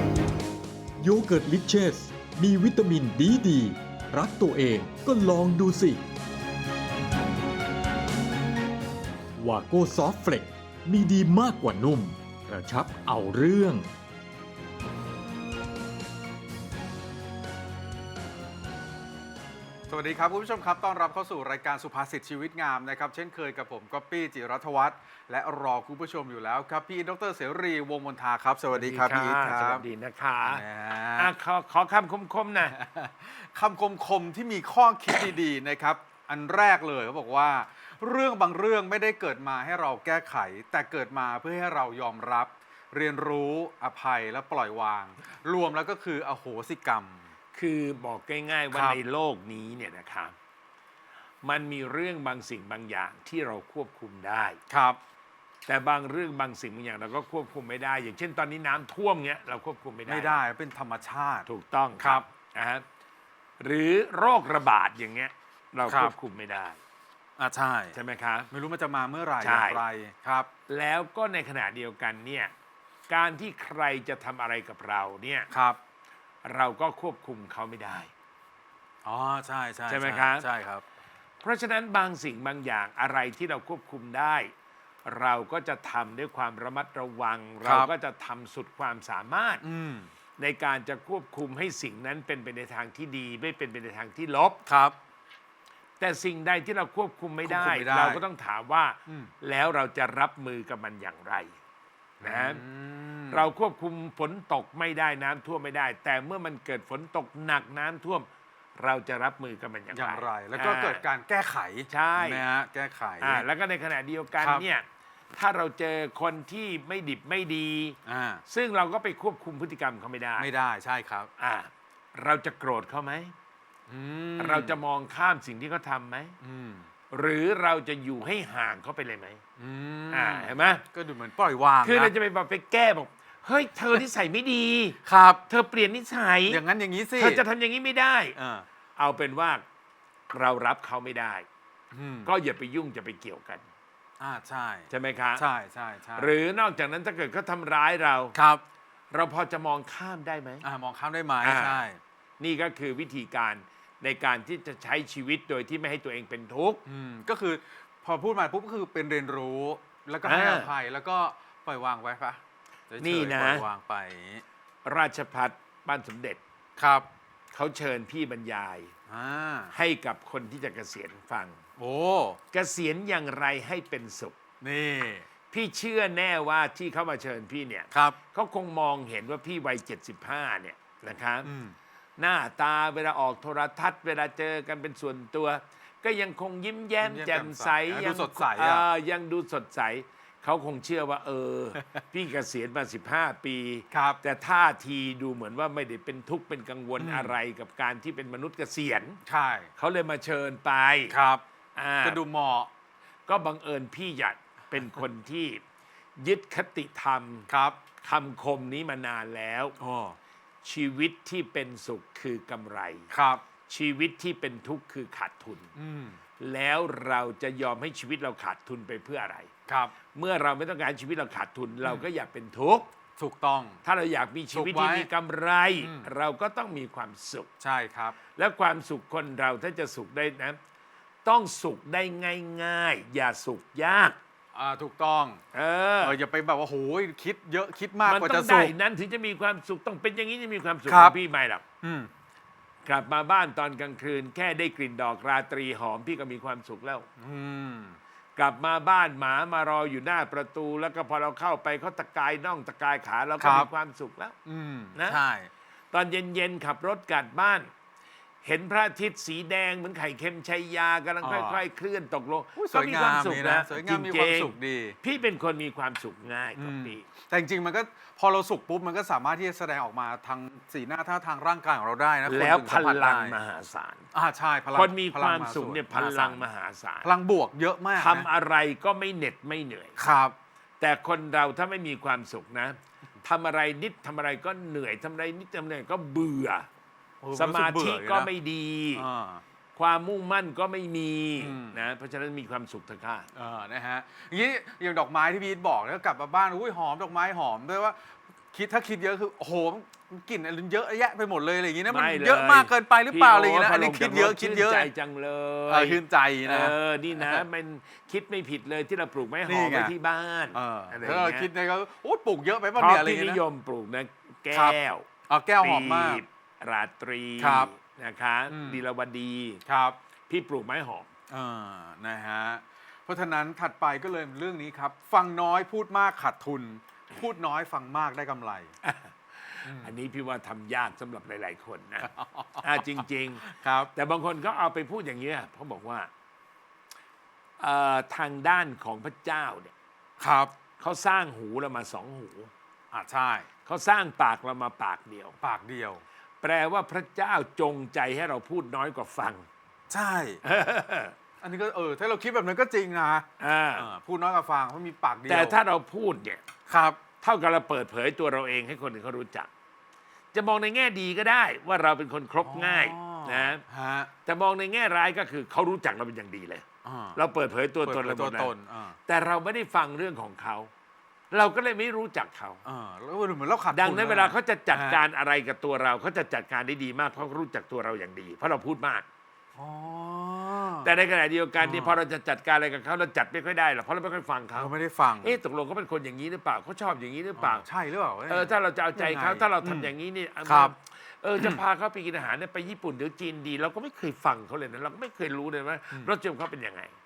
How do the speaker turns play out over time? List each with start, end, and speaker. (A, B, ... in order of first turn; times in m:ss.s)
0:01.0-0:06.0 A
0:09.4-0:13.9 A
0:19.9-0:29.8 B
0:28.7-0:30.6 C
0:30.4-0:31.3 B
0:31.2-0:32.8 C
0:32.7-0:47.2 B
0:47.5-0:50.3 C
0:51.4-0:54.6 C
0:54.7-0:55.0 B
0:55.7-1:00.4 C
1:00.1-1:01.5 B
1:01.5-1:02.8 C
1:02.0-1:02.2 B
1:03.6-1:06.8 C
1:05.9-1:06.1 B
1:07.4-1:08.0 B
1:07.9-1:08.5 C
1:08.5-1:10.5 B
1:09.4-1:09.8 C
1:10.7-1:12.5 C
1:13.1-1:15.5 C
1:15.5-1:15.8 B
1:16.4-1:18.1 C
1:19.0-1:20.8 B
1:19.9-1:20.4 C
1:21.4-1:24.5 C
1:25.0-1:29.6 C
1:27.6-1:27.9 B
1:29.6-1:30.1 B
1:30.4-1:34.6 C
1:34.7-1:34.9 B
1:36.0-1:41.5 C
1:37.4-1:38.2 B
1:42.2-1:43.4 B
1:42.2-1:42.6 C
1:43.3-1:51.0 C
1:49.9-1:53.4 B
1:51.9-1:52.4 C
1:53.2-1:58.0 C
1:58.0-1:58.4 B
1:58.5-2:00.5 C
2:00.4-2:01.3 B
2:01.4-2:03.3 C
2:03.9-2:04.8 B
2:04.4-2:06.4 C
2:06.4-2:06.9 B
2:07.1-2:09.4 C
2:09.6-2:12.1 B
2:10.1-2:10.8 C
2:11.8-2:16.6 C
2:15.0-2:15.4 B
2:16.5-2:17.4 B
2:17.2-2:18.3 C
2:18.4-2:18.6 B
2:19.0-2:19.6 C
2:20.3-2:21.4 C
2:21.9-2:22.3 B
2:22.2-2:23.6 C
2:24.2-2:26.3 B
2:24.9-2:25.4 C
2:26.2-2:28.4 C
2:28.3-2:28.6 B
2:29.1-2:30.6 C
2:30.6-2:32.0 B
2:31.4-2:31.8 C
2:32.4-2:36.8 C
2:36.8-2:44.4 B
2:40.2-2:40.7 C
2:43.0-2:43.7 C
2:44.8-2:46.4 C
2:46.8-2:47.0 B
2:47.5-2:48.9 C
2:49.1-2:49.7 B
2:49.7-2:51.6 C
2:51.8-2:52.4 B
2:52.5-2:54.4 C
2:54.6-2:55.2 B
2:55.5-3:01.5 C
3:01.4-3:01.7 B
3:02.2-3:19.2 C
3:07.0-3:08.8 B
3:13.9-3:14.2 B
3:17.0-3:17.3 B
3:19.2-3:19.7 B
3:19.8-3:21.1 C
3:21.1-3:21.4 B
3:21.8-3:22.2 C
3:22.0-3:22.7 B
3:23.3-3:25.6 C
3:26.2-3:27.5 C
3:27.5-3:27.8 B
3:28.0-3:29.8 C
3:29.8-3:30.2 B
3:30.6-3:33.1 C
3:33.1-3:33.4 B
3:33.7-3:35.7 C
3:35.8-3:36.2 B
3:36.4-3:39.5 C
3:39.7-3:39.9 B
3:40.1-3:42.9 C
3:43.2-3:43.8 B
3:43.8-3:47.5 C
3:44.5-3:45.1 B
3:45.8-3:46.1 B
3:47.6-3:48.2 B
3:48.4-3:50.6 C
3:51.2-3:54.2 C
3:54.5-3:55.4 B
3:55.5-3:56.2 C
3:56.0-3:58.7 B
3:58.0-4:01.6 C
4:00.9-4:01.1 B
4:01.8-4:02.1 B
4:02.8-4:07.1 C
4:07.2-4:08.0 B
4:08.4-4:14.3 C
4:13.4-4:13.7 B
4:14.4-4:15.5 B
4:15.9-4:17.7 C
4:18.4-4:27.0 C
4:21.2-4:21.6 B
4:22.6-4:25.0 B
4:26.6-4:33.4 B
4:32.2-4:34.0 C
4:34.1-4:36.4 B
4:34.7-4:37.1 C
4:37.0-4:38.3 B
4:37.9-4:40.0 C
4:40.0-4:40.3 B
4:40.8-4:46.7 C
4:47.2-4:48.3 B
4:47.3-4:49.0 C
4:48.9-4:49.4 B
4:49.8-4:53.3 C
4:51.4-4:51.8 B
4:53.3-4:58.0 B
4:58.5-5:04.9 B
5:01.9-5:11.5 C
5:05.7-5:07.4 B
5:09.4-5:09.9 B
5:10.5-5:13.4 B
5:12.8-5:15.0 C
5:14.5-5:14.8 B
5:15.3-5:16.2 B
5:15.6-5:19.6 C
5:17.4-5:17.7 B
5:18.5-5:18.8 B
5:19.7-5:20.0 B
5:20.3-5:21.1 C
5:21.3-5:28.7 B
5:28.8-5:32.1 C
5:29.6-5:29.9 B
5:32.0-5:32.6 B
5:32.6-5:36.1 C
5:33.4-5:33.9 B
5:37.6-5:39.7 C
5:40.2-5:40.5 B
5:40.8-5:42.5 C
5:42.9-5:43.5 B
5:43.6-5:45.3 C
5:45.4-5:46.0 B
5:46.4-5:49.5 C
5:49.9-5:50.4 B
5:50.4-5:51.1 C
5:51.4-5:55.6 B
5:53.4-5:53.9 C
5:55.3-5:56.4 C
5:56.7-5:57.0 B
5:57.2-5:59.5 C
6:00.3-6:03.6 C
6:02.4-6:04.1 B
6:04.2-6:08.5 C
6:06.8-6:07.2 B
6:07.8-6:09.0 B
6:09.1-6:10.7 C
6:11.3-6:12.6 C
6:12.6-6:15.0 B
6:13.7-6:19.0 C
6:19.6-6:20.9 B
6:20.8-6:27.7 C
6:21.6-6:22.0 B
6:24.5-6:25.4 B
6:27.4-6:29.9 B
6:28.2-6:36.9 C
6:30.4-6:30.7 B